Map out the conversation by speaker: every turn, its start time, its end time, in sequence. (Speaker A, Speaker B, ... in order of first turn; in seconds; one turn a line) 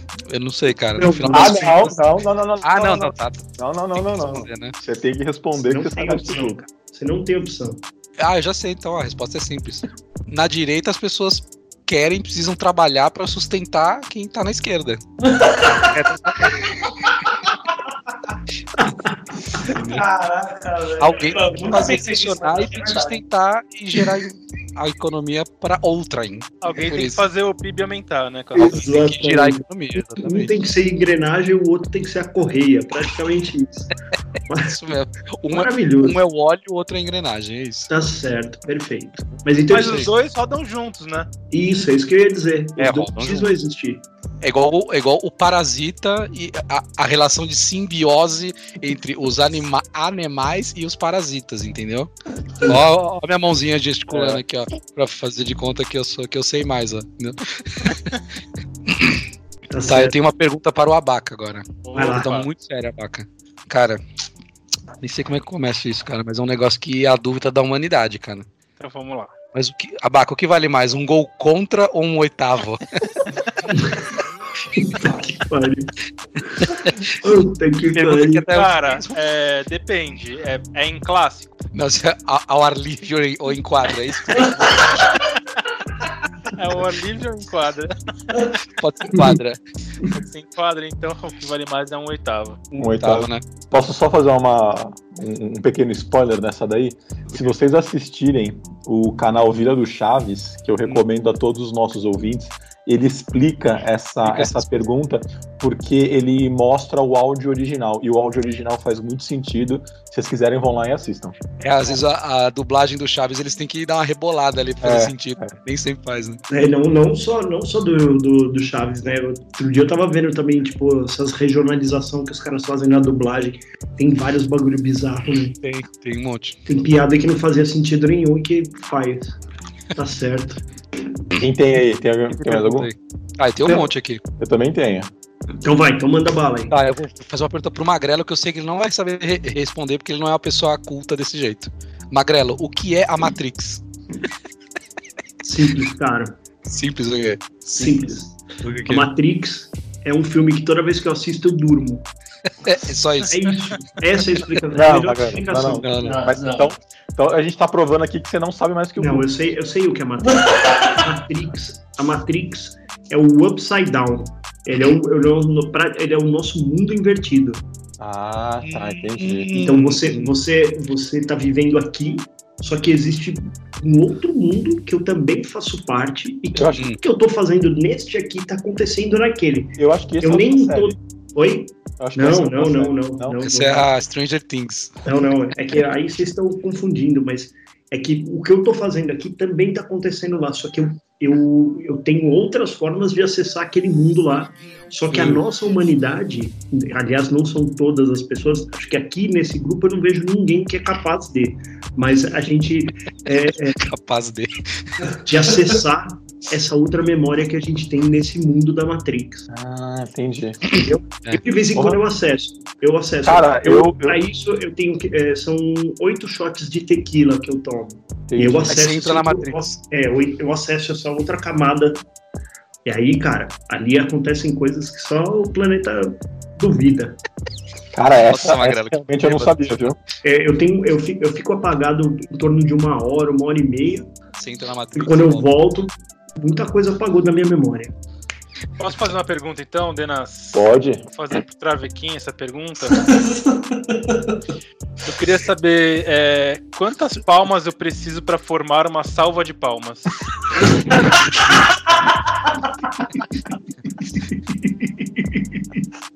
Speaker A: 0.3-2.0
Speaker B: 1.0-2.0
Speaker C: 1.3-6.6
Speaker A: 2.6-4.8
Speaker B: 5.5-7.8
Speaker A: 8.2-15.0
Speaker D: 15.2-16.0
Speaker A: 15.9-17.4
Speaker D: 16.6-16.9
Speaker B: 18.8-19.2
Speaker A: 19.6-20.0
Speaker D: 19.7-23.2
Speaker A: 21.0-27.2
Speaker E: 26.6-28.9
Speaker A: 28.6-30.5
Speaker B: 28.6-33.9
Speaker B: 34.5-34.8
Speaker A: 34.6-37.9
Speaker B: 35.5-36.2
Speaker B: 37.9-40.1
Speaker E: 39.7-41.3
Speaker A: 39.8-40.1
Speaker B: 41.5-44.0
Speaker A: 42.8-43.5
Speaker A: 44.4-52.1
Speaker A: 52.6-58.2
Speaker C: 54.1-54.4
Speaker A: 58.9-59.2
Speaker B: 59.7-60.1
Speaker A: 59.9-64.0
Speaker E: 61.8-62.5
Speaker B: 61.9-62.3
Speaker A: 65.0-68.5
Speaker E: 68.8-69.3
Speaker A: 69.5-73.2
Speaker B: 73.7-74.1
Speaker B: 74.7-75.9
Speaker B: 76.6-78.5
Speaker A: 76.6-77.1
Speaker A: 77.9-79.1
Speaker E: 78.5-81.6
Speaker A: 81.7-85.2
Speaker E: 86.5-88.6
Speaker A: 88.8-89.6
Speaker B: 89.1-89.4
Speaker E: 90.1-92.7
Speaker C: 92.8-111.4
Speaker A: 93.0-93.4
Speaker A: 104.2-104.7
Speaker A: 111.6-116.4
Speaker C: 114.8-115.5
Speaker B: 116.5-125.5
Speaker A: 125.3-126.6
Speaker B: 126.7-129.3
Speaker B: 129.9-130.6
Speaker C: 131.3-132.9
Speaker A: 132.4-134.2
Speaker C: 134.4-135.1
Speaker B: 135.6-136.7
Speaker A: 136.7-143.8
Speaker B: 145.4-146.4
Speaker A: 146.7-149.1
Speaker B: 147.7-152.1
Speaker A: 152.6-153.5
Speaker B: 153.2-155.9
Speaker C: 154.7-159.3
Speaker A: 155.8-156.3
Speaker D: 156.0-156.7
Speaker B: 159.0-167.6
Speaker D: 160.2-161.1
Speaker C: 168.0-169.6
Speaker A: 168.6-170.3
Speaker B: 169.5-183.9
Speaker C: 176.6-176.9
Speaker C: 179.8-181.0
Speaker C: 182.0-183.4
Speaker A: 183.4-185.0
Speaker B: 185.1-203.8
Speaker A: 195.1-195.4
Speaker A: 203.7-205.2
Speaker B: 205.2-209.5
Speaker C: 209.5-210.7
Speaker B: 210.7-222.1
Speaker C: 211.7-212.0
Speaker C: 213.2-214.2
Speaker C: 218.3-218.7
Speaker A: 218.6-219.8
Speaker B: 222.8-227.2
Speaker C: 227.9-230.0
Speaker A: 228.3-229.7
Speaker B: 230.2-234.1
Speaker A: 234.4-235.5
Speaker B: 234.9-237.9
Speaker E: 238.8-243.1
Speaker C: 240.5-241.1
Speaker D: 242.9-244.4
Speaker E: 245.0-250.1
Speaker B: 253.9-255.9